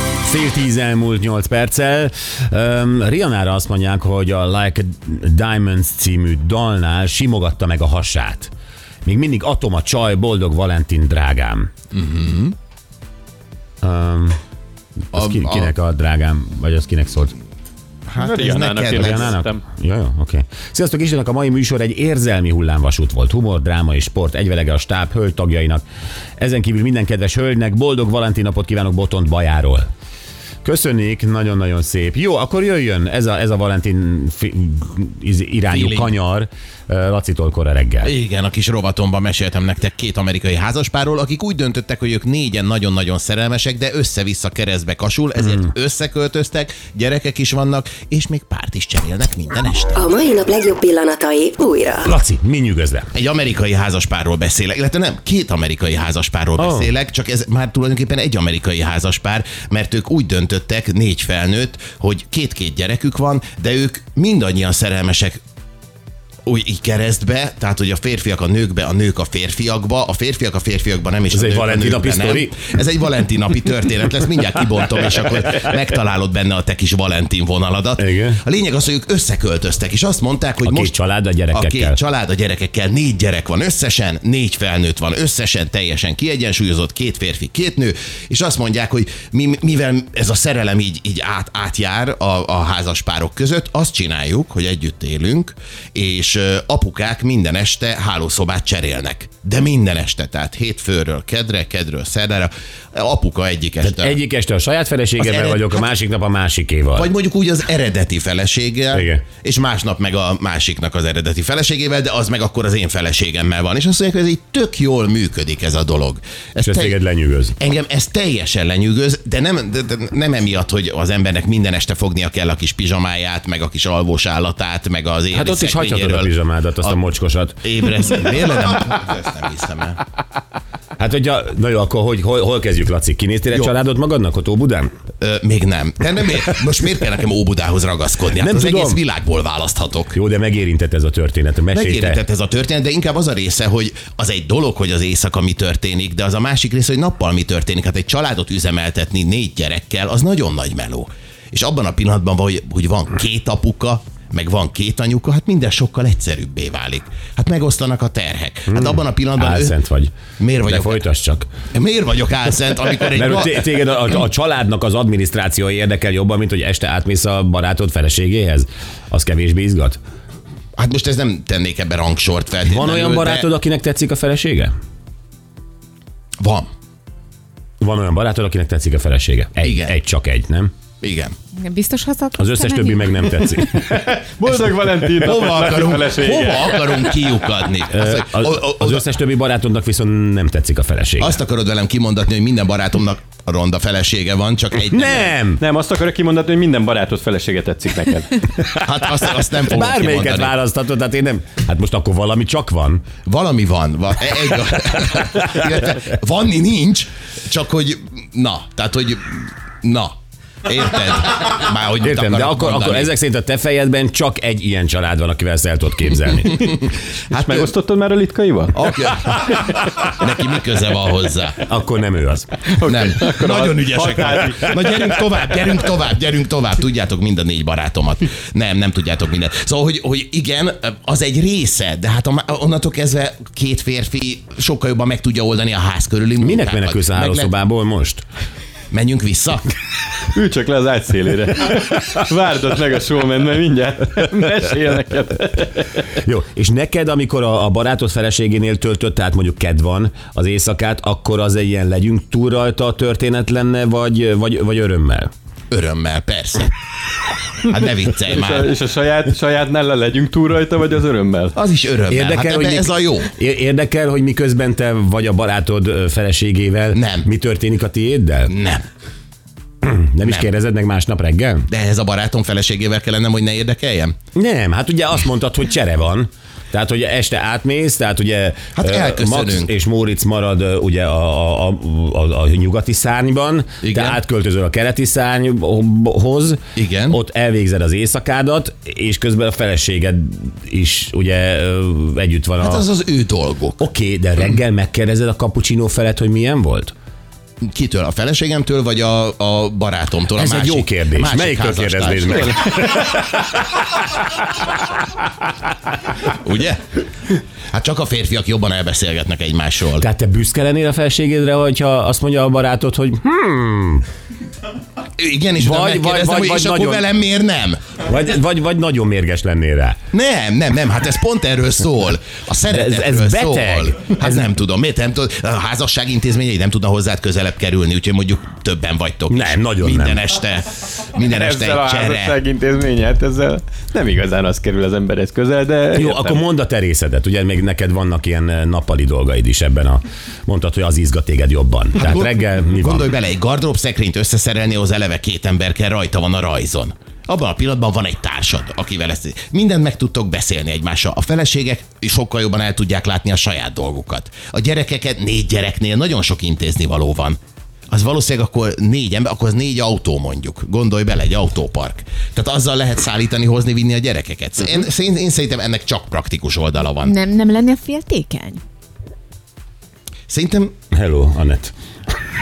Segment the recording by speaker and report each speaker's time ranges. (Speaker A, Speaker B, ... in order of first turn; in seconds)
Speaker A: 0.2-8.5, 9.0-11.7, 13.8-14.4, 15.1-17.3, 18.9-25.8, 26.4-29.9, 30.6-38.1, 52.0-53.1, 56.6-56.9, 71.3-72.6, 78.0-78.4, 80.6-82.0, 103.8-107.1, 108.9-109.2, 116.6-117.5, 125.3-127.6, 131.0-134.9, 138.3-139.0, 140.1-142.2, 158.7-161.5, 163.1-170.0, 172.7-174.7, 177.8-180.7, 182.4-183.8, 187.9-191.4, 194.8-195.6, 199.6-203.0, 212.0-216.7, 221.6-222.5, 236.4-238.2, 246.1-255.3, 262.1-268.5, 269.8-271.7, 274.3-292.8, 293.8-296.9, 300.3-304.8, 310.0-314.1, 315.6-317.0, 318.0-320.0, 322.7-324.5, 329.3-330.2, 335.9-343.1, 370.9-371.7
Speaker B: 11.9-12.5, 15.1-15.7, 18.1-19.4, 35.7-36.1, 38.0-49.9, 53.1-65.4, 66.5-80.9, 81.5-104.2, 105.2-105.8, 107.0-117.0, 117.6-127.0, 127.6-130.0, 135.2-140.2, 141.7-159.7, 160.4-161.1, 161.7-163.7, 170.8-173.5, 176.4-176.7, 179.6-179.9, 181.0-181.3, 185.2-189.1, 191.2-195.3, 198.7-200.5, 203.2-210.1, 210.6-213.1, 217.3-217.7, 218.7-221.7, 222.8-237.5, 238.9-239.8, 255.7-256.7, 257.7-258.7, 261.5-263.3, 266.9-267.3, 268.5-268.8, 271.7-274.1, 278.8-279.7, 283.8-284.2, 286.8-287.2, 292.6-293.8, 297.6-302.8, 306.2-310.1, 315.2-317.8, 320.1-332.4, 342.0-357.4, 357.9-367.1, 370.3-370.8
Speaker C: 18.2-19.6, 183.7-187.2, 195.6-198.4, 217.3-220.1, 222.7-225.0, 240.3-246.0, 258.1-261.5, 302.2-302.8, 331.2-336.4
Speaker D: 49.9-52.1
Speaker E: 181.5-183.9, 367.0-368.6